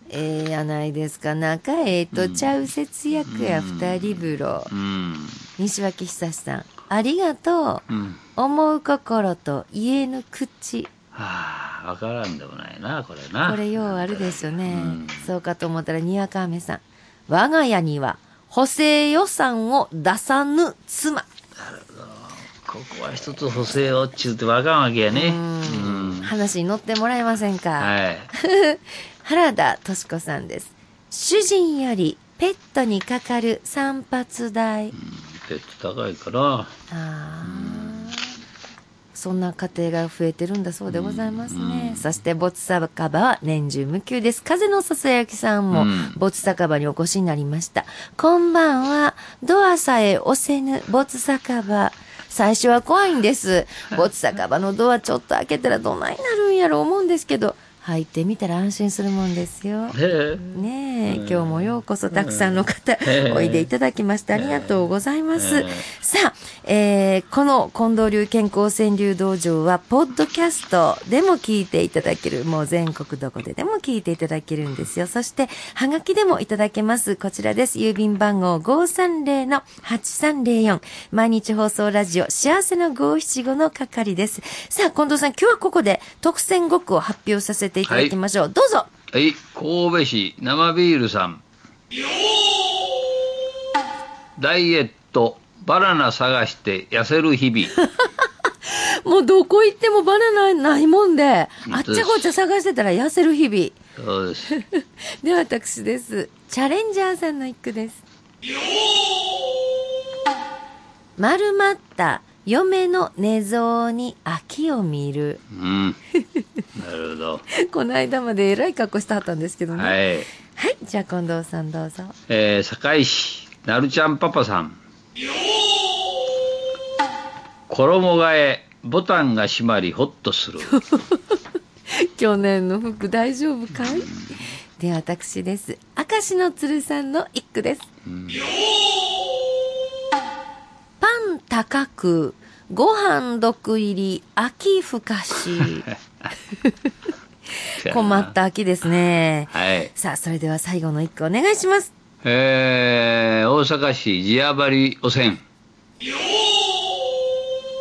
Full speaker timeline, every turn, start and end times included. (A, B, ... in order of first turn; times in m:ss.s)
0:00.1-0:04.7 A
0:02.1-0:02.6 B
0:03.2-0:05.5 B
0:05.6-0:10.9 A
0:07.9-0:08.2 B
0:11.1-0:15.3 B
0:13.4-0:21.2 A
0:21.6-0:26.3 B
0:25.1-0:34.9 A
0:27.8-0:28.3 B
0:34.9-0:36.7 B
0:36.9-0:38.3 A
0:37.4-0:38.1 B
0:39.1-1:00.0 A
0:40.9-0:42.1 B
0:45.7-0:46.2 B
0:59.9-1:03.7 B
1:00.5-1:28.9 A
1:04.3-1:05.9 B
1:27.8-1:28.2 B
1:29.1-1:31.4 B
1:34.4-1:37.8 B
1:37.8-1:43.8 A
1:41.6-1:42.3 B
1:44.0-1:44.5 B
1:44.5-1:48.0 A
1:51.2-1:55.4 A
1:55.5-1:56.0 B
1:56.8-1:57.4 B
1:57.5-2:00.0 A
1:59.7-2:00.3 B
2:00.5-2:02.2 A
2:02.3-2:04.8 B
2:07.7-2:10.8 B
2:10.8-2:11.2 A
2:11.9-2:14.1 A
2:13.7-2:14.5 B
2:14.8-2:17.9 A
2:18.0-2:18.5 B
2:21.0-2:25.8 A
2:25.6-2:26.0 B
2:27.7-2:31.9 A
2:27.8-2:28.3 B
2:29.5-2:29.9 B
2:32.2-2:35.4 B